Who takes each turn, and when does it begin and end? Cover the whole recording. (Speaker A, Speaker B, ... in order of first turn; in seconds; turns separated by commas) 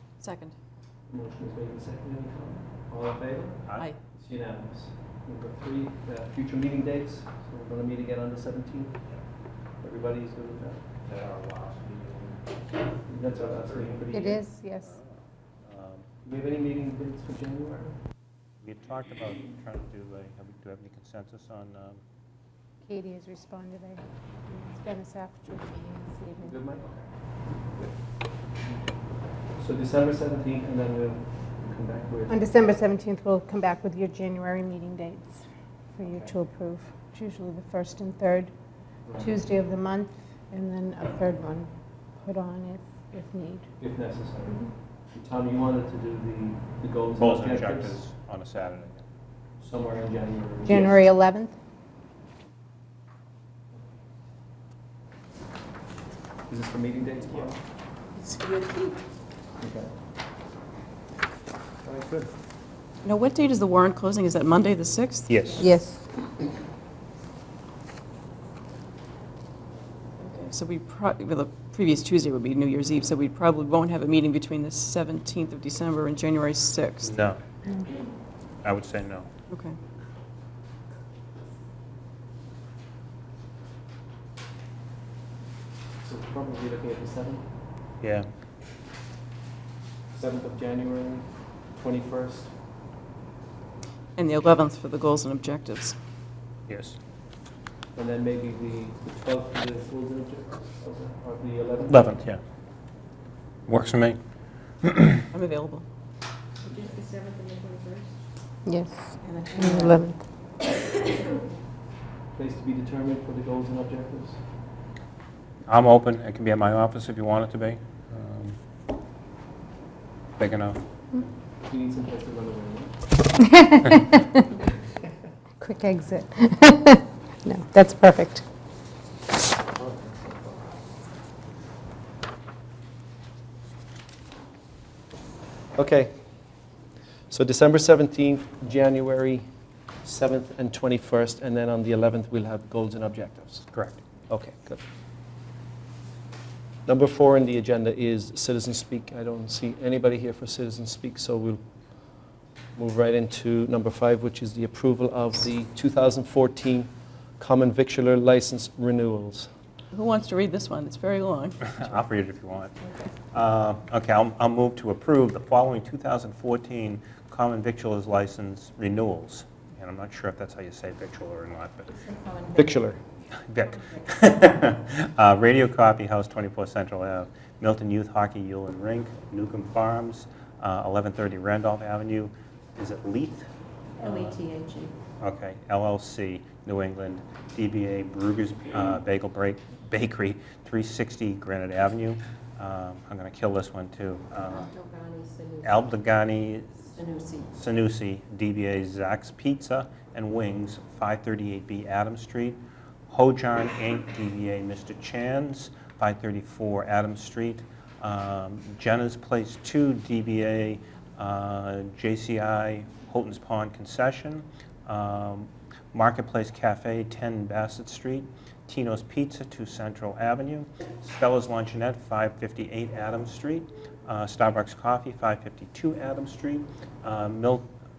Speaker A: 0.2-0.5, Speaker B: 1.1-9.1, Speaker C: 3.6-3.9, Speaker B: 9.8-10.9, Speaker C: 11.0-14.1, Speaker B: 13.1-14.5, Speaker D: 14.1-15.0, Speaker C: 14.8-16.1, Speaker B: 16.2-18.0, Speaker C: 18.6-22.0, Speaker D: 22.8-26.6, Speaker B: 26.4-27.0, Speaker B: 27.7-28.0, Speaker B: 29.6-32.5, Speaker D: 32.3-38.5, Speaker B: 36.0-36.3, Speaker B: 39.0-39.4, Speaker D: 39.2-43.7, Speaker B: 43.8-48.0, Speaker C: 47.2-49.0, Speaker B: 49.6-51.0, Speaker D: 50.7-51.5, Speaker B: 56.5-57.6, Speaker E: 58.2-59.0, Speaker B: 59.6-59.9, Speaker B: 61.8-62.3, Speaker A: 63.0-65.6, Speaker C: 65.3-65.6, Speaker D: 65.6-66.0, Speaker A: 70.2-77.1, Speaker C: 77.0-77.4, Speaker C: 78.6-79.3, Speaker A: 79.5-79.8, Speaker B: 86.0-87.6, Speaker C: 88.0-88.3, Speaker B: 90.1-92.6, Speaker A: 94.2-96.0, Speaker C: 96.7-97.0, Speaker B: 97.9-102.2, Speaker C: 101.9-102.4, Speaker C: 103.7-104.2, Speaker C: 104.8-105.3, Speaker A: 105.3-105.8, Speaker E: 106.6-108.1, Speaker D: 108.6-110.2, Speaker E: 109.2-110.1, Speaker E: 111.1-111.4, Speaker B: 112.3-114.5, Speaker C: 115.7-118.6, Speaker C: 120.4-120.8, Speaker B: 121.6-123.1, Speaker D: 123.4-124.2, Speaker D: 125.6-128.4, Speaker B: 129.8-130.3, Speaker B: 135.8-136.3, Speaker B: 137.3-139.5, Speaker B: 140.0-143.7, Speaker C: 143.7-144.0, Speaker B: 144.3-144.8, Speaker B: 146.9-151.6, Speaker B: 152.8-159.5, Speaker A: 159.9-162.0, Speaker C: 161.6-162.8, Speaker E: 162.8-163.1, Speaker C: 163.3-172.0, Speaker E: 171.9-172.8, Speaker B: 172.6-173.0, Speaker C: 173.5-183.5, Speaker E: 173.8-174.3, Speaker E: 184.0-184.9, Speaker C: 184.0-184.4, Speaker C: 185.2-194.7, Speaker E: 194.4-195.9, Speaker C: 195.6-196.9, Speaker E: 196.9-197.5, Speaker C: 197.5-227.7